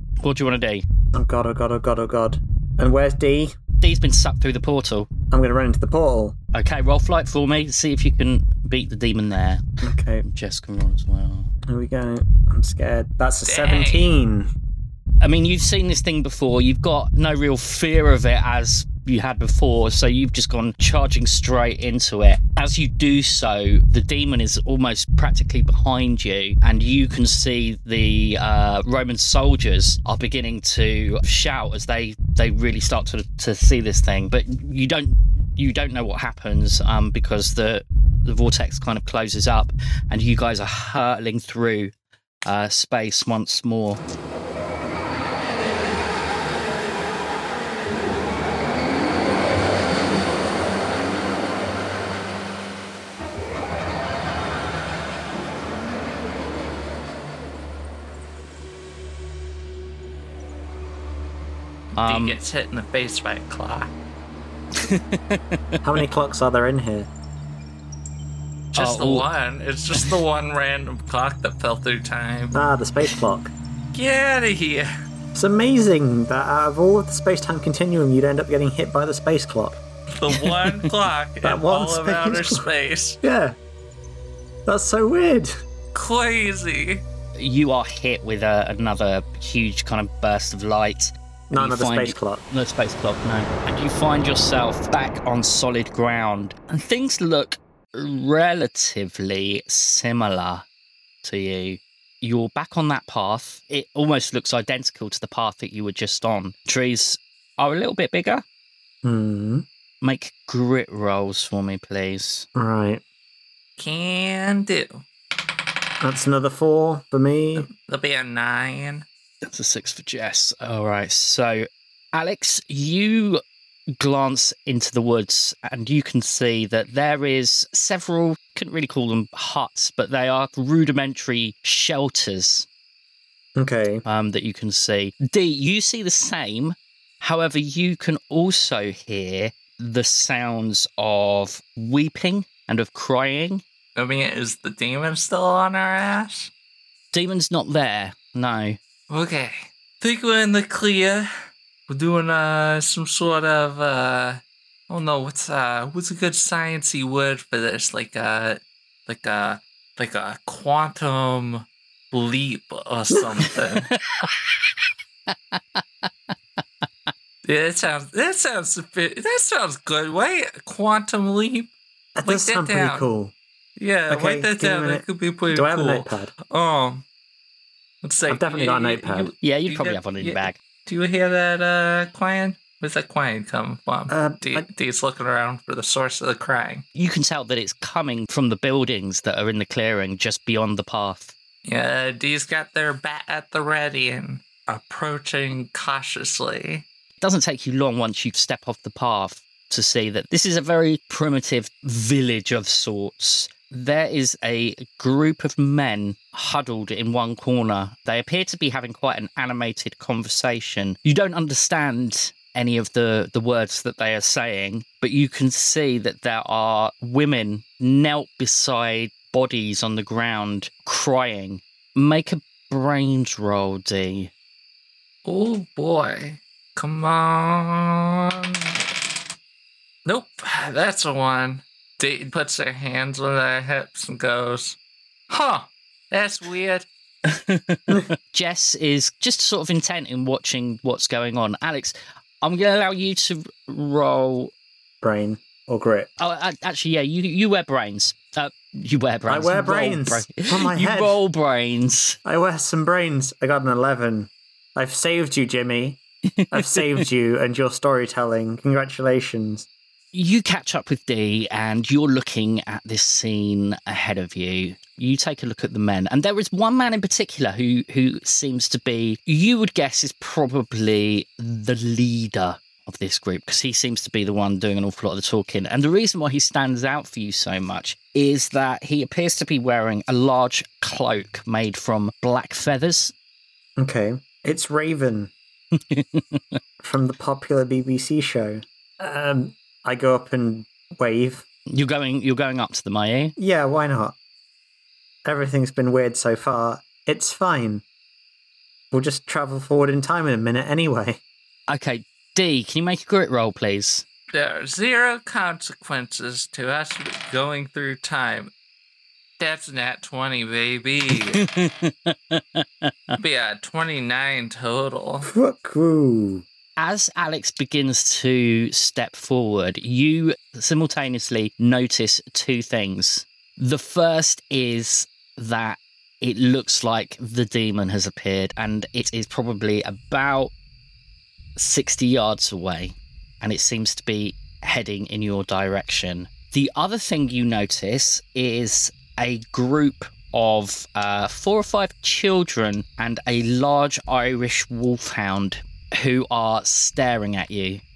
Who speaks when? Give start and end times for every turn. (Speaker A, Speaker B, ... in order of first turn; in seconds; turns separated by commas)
Speaker A: 0.2-0.8, Speaker B: 1.1-3.5, Speaker A: 3.8-5.1, Speaker B: 5.3-6.3, Speaker A: 6.5-9.6, Speaker B: 9.8-10.2, Speaker A: 10.2-11.5, Speaker B: 11.7-14.5, Speaker C: 13.4-14.1, Speaker A: 15.2-41.9, Speaker A: 42.4-44.0, Speaker A: 62.0-62.4, Speaker C: 62.0-63.9, Speaker A: 64.8-65.8, Speaker B: 65.8-67.1, Speaker C: 68.7-72.6, Speaker A: 68.8-69.3, Speaker B: 72.5-73.5, Speaker C: 73.9-74.9, Speaker B: 75.3-79.8, Speaker C: 80.1-83.2, Speaker A: 80.4-80.7, Speaker B: 81.4-82.6, Speaker B: 83.2-83.5, Speaker B: 84.7-85.5, Speaker C: 85.9-87.0, Speaker A: 87.3-100.6, Speaker B: 91.5-92.4, Speaker A: 101.2-108.4, Speaker B: 109.0-109.7, Speaker A: 110.0-112.5, Speaker B: 112.5-113.0, Speaker C: 113.8-115.0, Speaker B: 116.0-117.7, Speaker C: 117.6-119.0, Speaker A: 119.4-123.4, Speaker A: 124.0-132.7, Speaker B: 133.6-134.0, Speaker A: 134.0-143.6, Speaker C: 143.9-146.5, Speaker A: 147.1-148.8, Speaker C: 149.1-151.3, Speaker C: 151.9-163.9, Speaker A: 163.8-164.5, Speaker A: 165.3-166.3, Speaker C: 167.4-171.7, Speaker B: 172.2-173.3, Speaker C: 172.2-173.0, Speaker C: 173.8-177.0, Speaker B: 174.1-176.3, Speaker C: 178.0-186.8, Speaker B: 178.3-179.3, Speaker A: 179.4-180.6, Speaker B: 184.1-184.7, Speaker A: 186.9-191.3, Speaker C: 191.6-196.8, Speaker A: 197.2-224.3, Speaker C: 225.2-228.8, Speaker C: 230.1-234.8, Speaker C: 235.3-236.9, Speaker A: 237.2-244.5, Speaker B: 245.0-246.1, Speaker A: 246.2-252.2, Speaker B: 249.3-251.2, Speaker B: 252.2-259.7, Speaker A: 256.3-257.0, Speaker A: 260.1-283.1, Speaker B: 283.8-285.3, Speaker A: 285.7-286.6, Speaker B: 286.8-291.4, Speaker A: 291.7-293.3, Speaker B: 293.4-294.1, Speaker B: 295.2-297.8, Speaker B: 298.9-301.2, Speaker A: 301.7-304.0, Speaker C: 304.3-308.5, Speaker C: 309.4-311.4, Speaker A: 311.3-313.1, Speaker C: 313.2-315.3, Speaker B: 315.2-316.4, Speaker A: 316.8-330.5, Speaker A: 331.6-347.8